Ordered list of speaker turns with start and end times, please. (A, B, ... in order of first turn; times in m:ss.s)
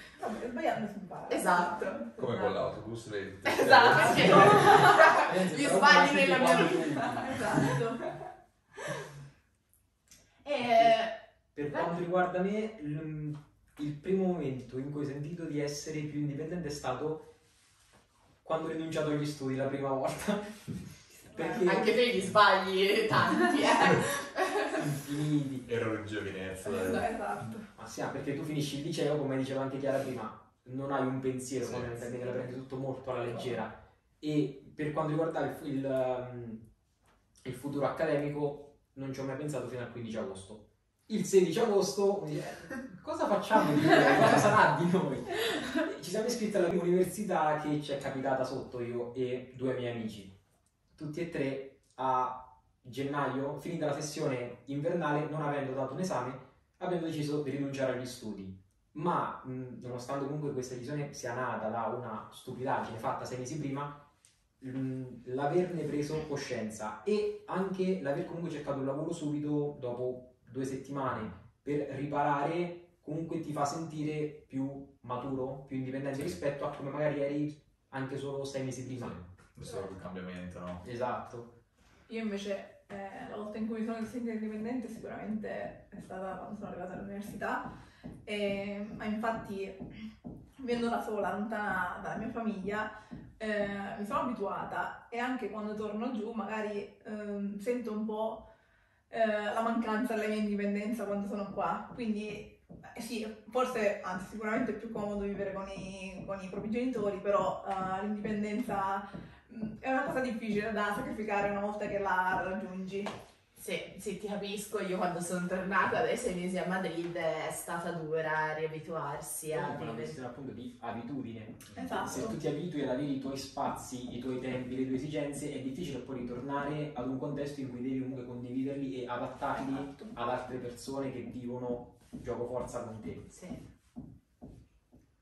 0:00.2-0:02.5 A
0:01.3-0:02.0 B
0:02.2-0:04.8 C
0:03.4-0:07.0 B
0:04.1-0:07.4 D
0:07.2-0:08.1 A
0:10.4-0:11.1 B
0:11.5-0:17.3 D
0:18.4-0:22.0 D
0:21.4-0:25.0 B
0:24.8-0:25.6 D
0:25.6-0:27.1 C
0:26.6-0:27.7 A
0:26.7-0:27.1 B
0:27.7-0:36.6 D
0:31.6-0:32.1 C
0:37.4-0:50.3 D
0:50.9-1:04.0 D
1:04.6-1:19.2 D
1:19.0-1:20.8 C
1:20.8-1:21.5 D
1:22.1-1:27.6 A
1:28.2-1:30.0 A
1:30.6-1:38.4 A
1:39.1-1:53.1 A
1:53.6-2:00.2 B
1:59.5-2:13.2 D
2:01.7-2:02.4 A
2:09.5-2:10.1 A
2:13.3-2:13.7 B